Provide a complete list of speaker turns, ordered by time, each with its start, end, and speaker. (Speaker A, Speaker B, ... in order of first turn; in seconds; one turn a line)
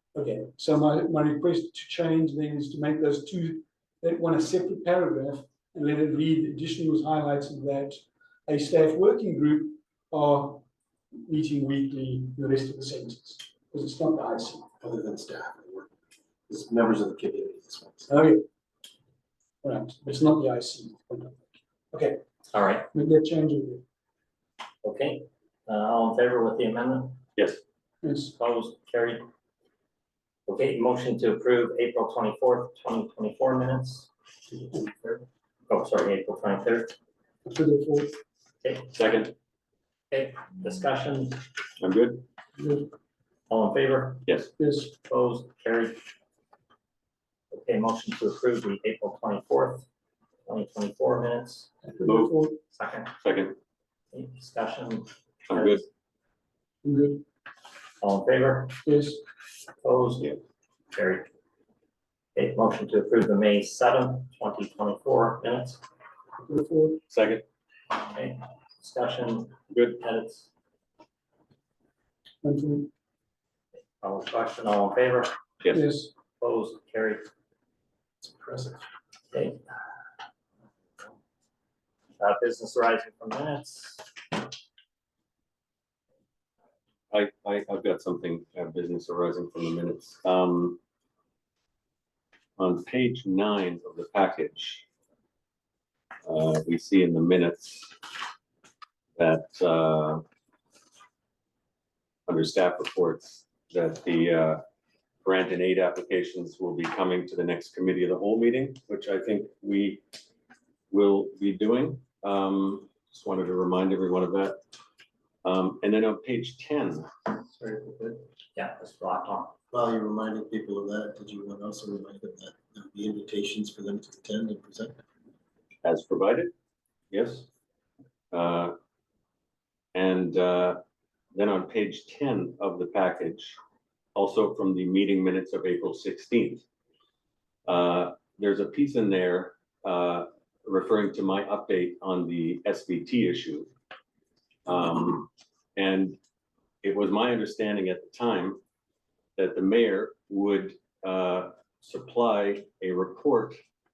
Speaker A: 0.1-10.6
Speaker A: 11.2-14.7
Speaker B: 14.8-15.9
Speaker B: 16.5-18.1
Speaker A: 18.1-18.4
Speaker A: 19.6-22.2
Speaker C: 22.5-22.9
Speaker A: 22.9-23.8
Speaker C: 24.8-27.2
Speaker A: 28.0-28.3
Speaker C: 28.4-29.2
Speaker C: 30.5-34.1
Speaker C: 35.7-36.9
Speaker A: 37.5-38.2
Speaker C: 38.6-38.9
Speaker D: 38.9-39.3
Speaker C: 40.1-41.4
Speaker D: 41.8-42.2
Speaker A: 42.6-42.9
Speaker C: 43.5-44.2
Speaker A: 44.6-44.9
Speaker C: 45.0-46.0
Speaker C: 47.5-49.9
Speaker C: 50.5-51.7
Speaker A: 51.9-52.6
Speaker D: 52.0-52.3
Speaker C: 52.7-53.1
Speaker D: 53.2-53.5
Speaker C: 54.1-55.8
Speaker D: 55.5-55.8
Speaker A: 56.8-57.2
Speaker C: 58.0-58.8
Speaker A: 58.8-59.2
Speaker C: 59.8-60.4
Speaker C: 60.9-61.3
Speaker C: 62.3-65.8
Speaker A: 66.5-67.0
Speaker D: 67.1-67.4
Speaker C: 68.0-70.5
Speaker A: 72.4-72.9
Speaker C: 74.0-75.4
Speaker A: 75.7-76.1
Speaker C: 76.4-77.2
Speaker B: 78.2-78.8
Speaker C: 79.3-79.6
Speaker C: 82.2-84.1
Speaker D: 87.1-90.8
Speaker D: 92.6-94.8
Speaker D: 96.2-98.0
Speaker D: 99.2-100.2
Speaker D: 102.3-104.6
Speaker D: 105.2-110.0
Speaker D: 110.9-114.6
Speaker D: 115.4-117.1
Speaker B: 117.5-118.2
Speaker C: 118.5-119.5
Speaker B: 119.7-125.0
Speaker D: 125.8-126.5
Speaker D: 127.1-127.5
Speaker D: 128.3-128.7
Speaker D: 129.9-130.8
Speaker D: 131.3-133.6
Speaker D: 134.1-136.6
Speaker D: 137.7-143.7
Speaker D: 144.7-146.2
Speaker D: 146.8-148.6
Speaker D: 149.4-153.6